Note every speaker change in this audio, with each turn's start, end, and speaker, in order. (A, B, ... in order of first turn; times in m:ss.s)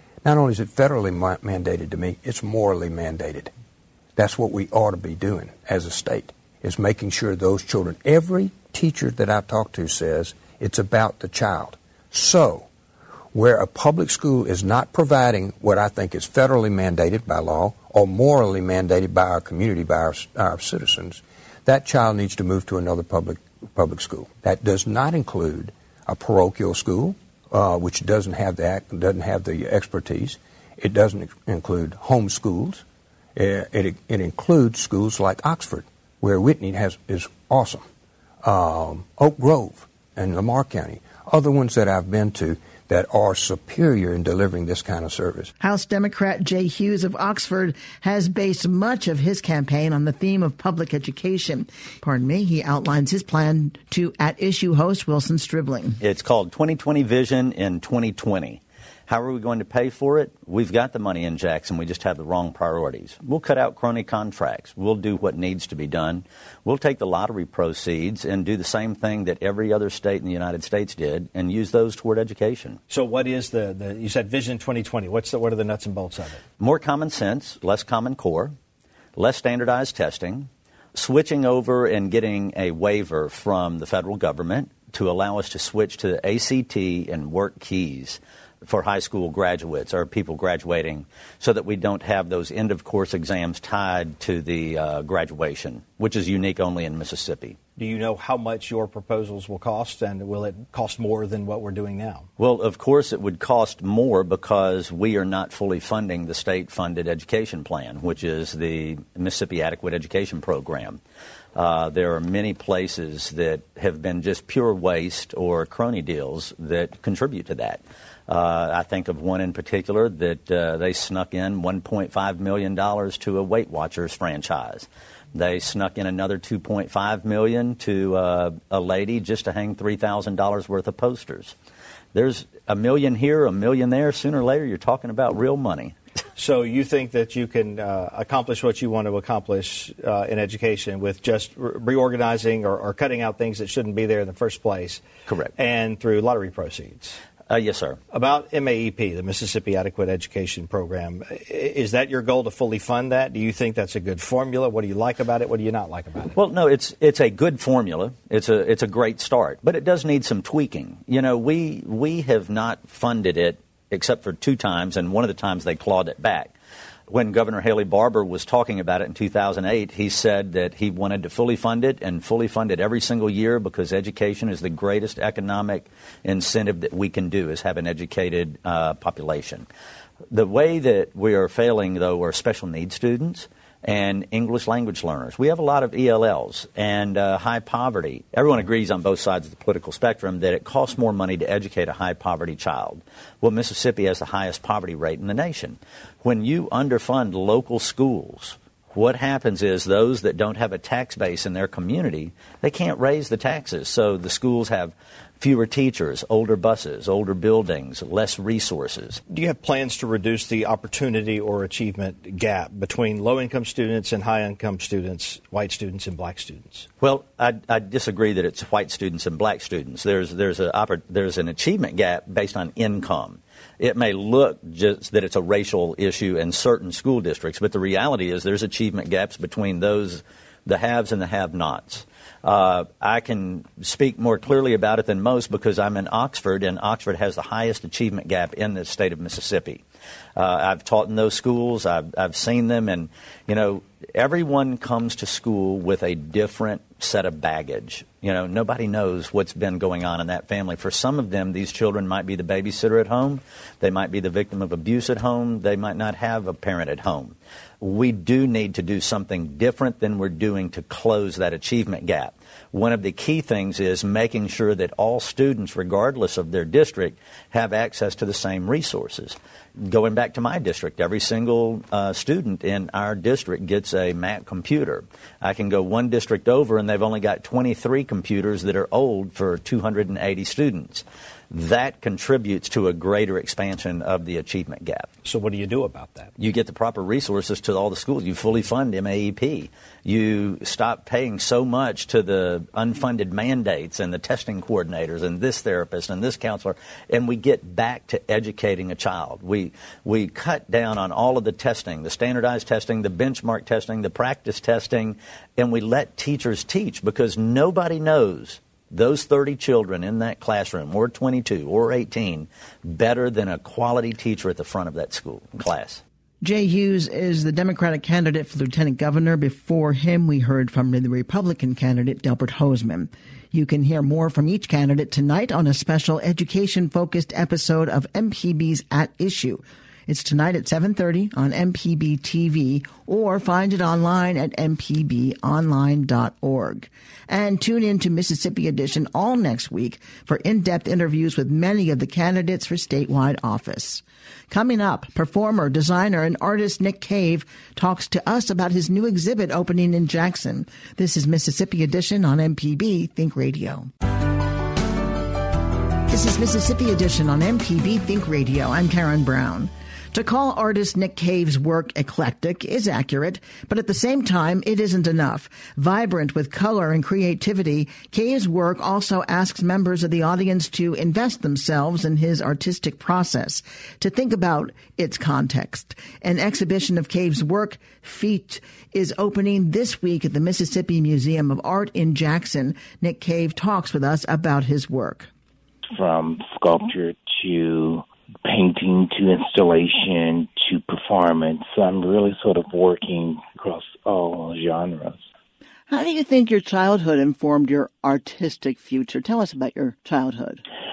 0:00.2-0:03.5 A
0:04.2-0:12.7 A
0:13.3-0:32.8 A
0:33.3-0:37.8 A
0:38.4-0:45.5 A
0:45.6-0:56.0 B
0:56.0-1:12.8 C
1:12.9-1:16.4 D
1:16.6-1:18.5 C
1:19.2-1:37.6 C
1:37.8-1:42.2 D
1:42.4-1:51.0 C
1:51.5-2:11.5 C
2:12.1-2:16.0 C
2:16.4-2:25.0 D
2:25.3-2:25.5 C
2:25.5-2:27.2 D
2:27.5-2:28.0 C
2:28.1-2:36.4 D
2:36.3-2:46.5 C
2:47.1-2:59.6 C
3:00.3-3:29.2 C
3:29.3-3:36.9 D
3:37.0-3:59.8 C
4:00.4-4:45.1 C
4:45.2-4:46.3 D
4:46.4-5:16.0 C
5:16.4-5:53.9 B
5:56.1-6:25.3 B
6:25.9-6:35.3 E
6:35.9-6:40.6 B